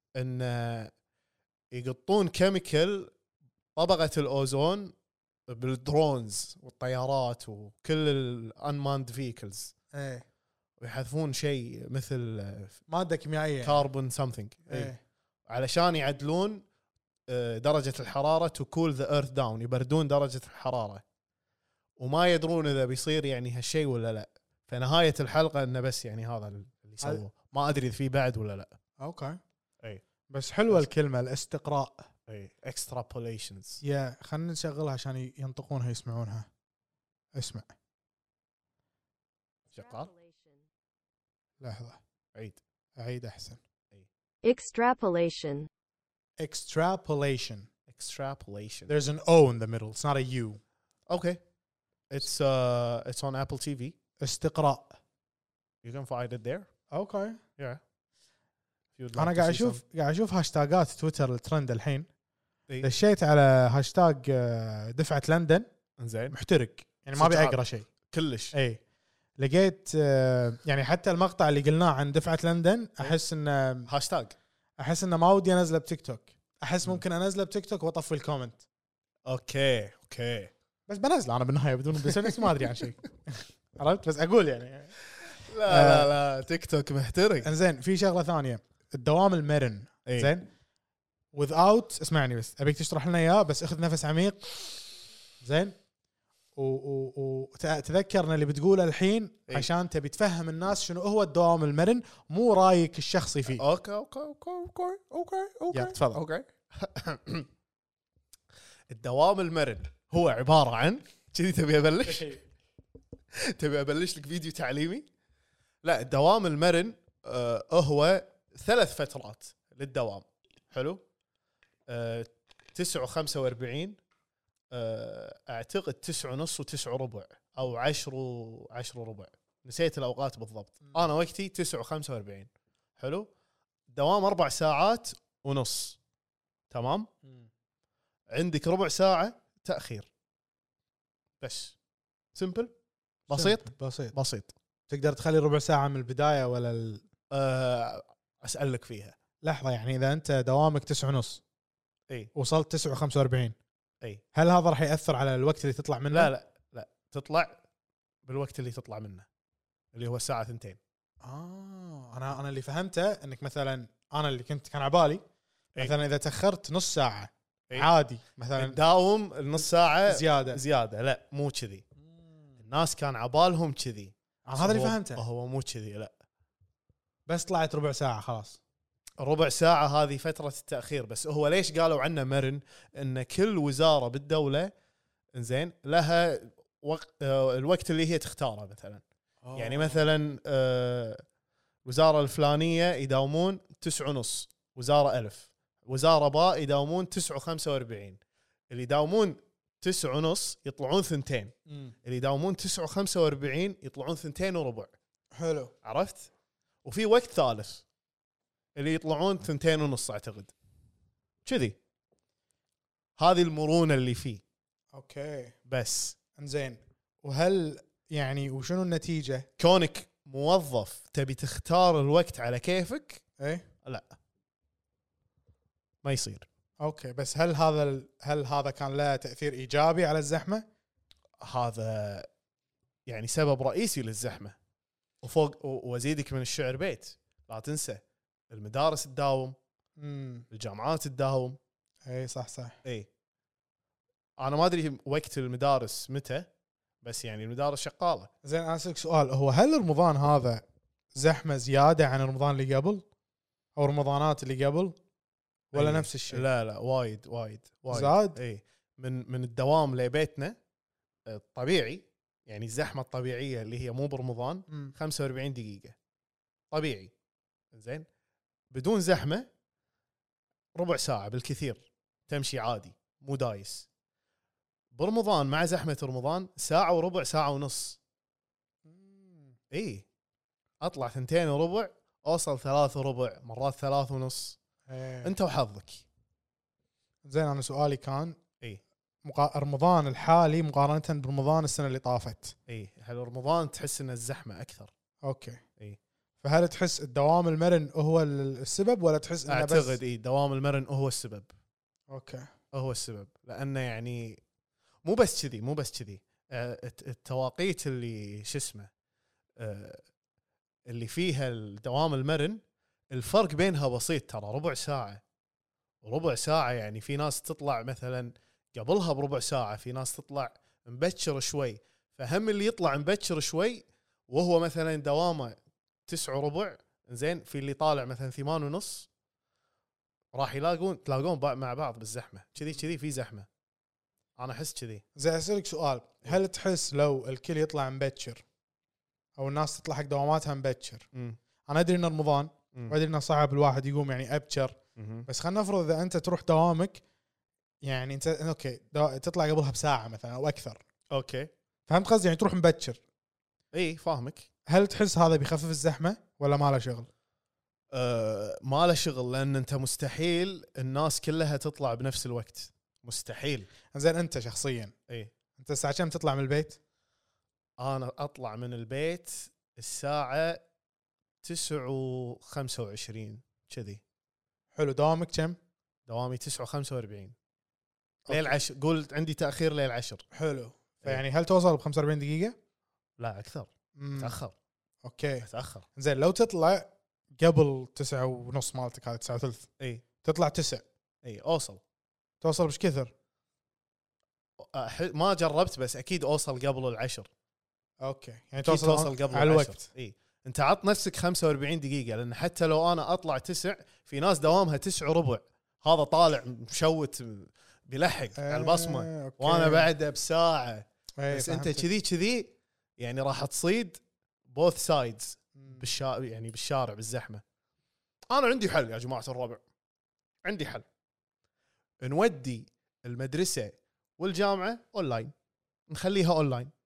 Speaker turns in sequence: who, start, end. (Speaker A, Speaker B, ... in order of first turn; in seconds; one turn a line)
Speaker A: 0.1-0.9
Speaker A: 1.7-3.1
Speaker A: 3.8-4.9
Speaker A: 5.5-9.7
Speaker B: 9.9-10.2
Speaker A: 10.8-12.8
Speaker B: 12.9-13.8
Speaker A: 13.6-14.9
Speaker B: 14.7-15.0
Speaker A: 15.5-16.6
Speaker A: 17.3-21.0
Speaker A: 22.0-28.7
Speaker B: 29.0-29.4
Speaker B: 30.3-32.1
Speaker A: 32.3-33.8
Speaker B: 33.8-36.5
Speaker B: 37.4-37.7
Speaker C: 39.7-40.6
Speaker A: 39.7-40.1
Speaker B: 41.6-42.0
Speaker A: 42.3-42.6
Speaker B: 43.0-43.6
Speaker C: 44.4-45.7
Speaker B: 46.4-47.7
Speaker A: 47.9-48.9
Speaker B: 48.9-50.6
Speaker A: 51.1-51.4
Speaker A: 52.1-54.0
Speaker B: 54.2-55.0
Speaker A: 55.8-56.7
Speaker B: 56.9-57.4
Speaker A: 59.0-59.8
Speaker B: 59.1-62.1
Speaker B: 62.8-65.7
Speaker A: 66.0-66.3
Speaker B: 66.3-67.9
Speaker A: 67.2-68.5
Speaker B: 68.5-68.8
Speaker B: 69.4-73.9
Speaker A: 73.9-74.3
Speaker B: 74.8-78.6
Speaker A: 79.3-80.5
Speaker B: 80.9-85.0
Speaker A: 82.0-82.7
Speaker A: 85.5-87.5
Speaker B: 85.6-86.1
Speaker B: 87.4-90.5
Speaker B: 91.3-94.5
Speaker B: 95.4-95.8
Speaker B: 96.6-103.6
Speaker A: 103.5-107.5
Speaker B: 105.7-106.2
Speaker A: 108.9-112.3
Speaker B: 112.1-112.4
Speaker A: 113.3-115.1
Speaker A: 115.8-121.0
Speaker A: 121.9-124.0
Speaker A: 124.7-133.3
Speaker A: 133.9-136.0
Speaker A: 136.7-137.1
Speaker A: 138.3-140.1
Speaker A: 141.4-141.8
Speaker A: 142.3-142.7
Speaker A: 143.3-144.5
Speaker B: 143.3-144.2
Speaker B: 144.9-147.0
Speaker A: 147.3-149.2
Speaker B: 149.4-151.4
Speaker B: 152.3-153.6
Speaker B: 154.3-156.3
Speaker A: 156.1-157.6
Speaker A: 158.2-159.3
Speaker A: 159.9-160.8
Speaker B: 161.2-165.2
Speaker B: 165.8-168.8
Speaker A: 168.6-171.8
Speaker B: 170.1-170.6
Speaker B: 172.1-172.5
Speaker A: 172.6-176.1
Speaker B: 174.5-175.2
Speaker B: 177.3-178.6
Speaker A: 179.2-184.7
Speaker A: 185.3-189.0
Speaker B: 189.4-190.1
Speaker A: 189.6-191.2
Speaker A: 191.8-204.9
Speaker B: 201.7-201.9
Speaker B: 205.4-205.7
Speaker A: 205.8-206.3
Speaker A: 206.8-207.8
Speaker A: 208.8-210.5
Speaker A: 211.4-211.8
Speaker A: 213.2-214.4
Speaker B: 214.9-215.6
Speaker A: 215.7-216.2
Speaker B: 216.3-219.5
Speaker A: 219.6-223.2
Speaker B: 223.4-223.7
Speaker A: 223.8-224.1
Speaker A: 226.0-226.5
Speaker B: 226.8-230.7
Speaker A: 231.4-232.3
Speaker A: 233.1-234.6
Speaker A: 235.2-239.6
Speaker B: 240.0-240.5
Speaker A: 240.5-241.6
Speaker B: 242.1-242.8
Speaker A: 244.4-246.5
Speaker A: 247.0-248.3
Speaker B: 248.4-250.6
Speaker B: 251.2-253.1
Speaker B: 253.8-255.0
Speaker B: 255.7-256.4
Speaker A: 255.7-260.6
Speaker B: 257.9-258.4
Speaker A: 261.3-265.9
Speaker A: 266.7-267.1
Speaker A: 267.7-268.1
Speaker A: 268.7-269.5
Speaker A: 270.8-273.9
Speaker A: 274.9-278.0
Speaker B: 278.9-279.6
Speaker A: 279.7-280.1
Speaker A: 280.8-284.6
Speaker B: 284.9-285.3
Speaker A: 285.2-286.0
Speaker B: 287.3-288.4
Speaker B: 289.2-292.6
Speaker A: 292.7-294.9
Speaker B: 295.2-295.6
Speaker B: 296.4-300.0
Speaker A: 299.5-301.5
Speaker B: 302.1-302.5
Speaker A: 302.7-304.4
Speaker A: 305.0-308.9
Speaker A: 309.6-310.0
Speaker A: 310.9-315.2
Speaker A: 316.0-329.1
Speaker A: 330.3-333.5
Speaker A: 334.4-335.0
Speaker B: 335.2-338.4
Speaker B: 339.4-341.1
Speaker B: 341.6-347.0
Speaker A: 345.0-345.3
Speaker B: 347.8-350.8
Speaker A: 351.1-351.5
Speaker B: 351.9-353.0
Speaker A: 353.7-354.5
Speaker B: 354.7-357.1
Speaker A: 357.9-363.7
Speaker B: 363.9-364.9
Speaker B: 365.6-366.8
Speaker A: 367.8-370.6
Speaker A: 371.4-374.0
Speaker B: 374.8-375.6
Speaker A: 376.1-377.4
Speaker B: 378.3-378.6
Speaker A: 378.3-380.2
Speaker B: 380.3-382.6
Speaker A: 383.2-384.5
Speaker B: 384.0-384.4
Speaker B: 385.0-389.7
Speaker A: 385.4-385.9
Speaker B: 390.2-390.9
Speaker A: 391.2-391.8
Speaker B: 392.4-393.1
Speaker A: 394.6-397.3
Speaker B: 398.0-399.9
Speaker A: 398.6-417.4
Speaker B: 408.4-409.9
Speaker B: 411.2-411.9
Speaker B: 415.6-415.9
Speaker A: 418.3-419.6
Speaker A: 420.4-420.9
Speaker A: 422.0-425.3
Speaker A: 425.9-426.7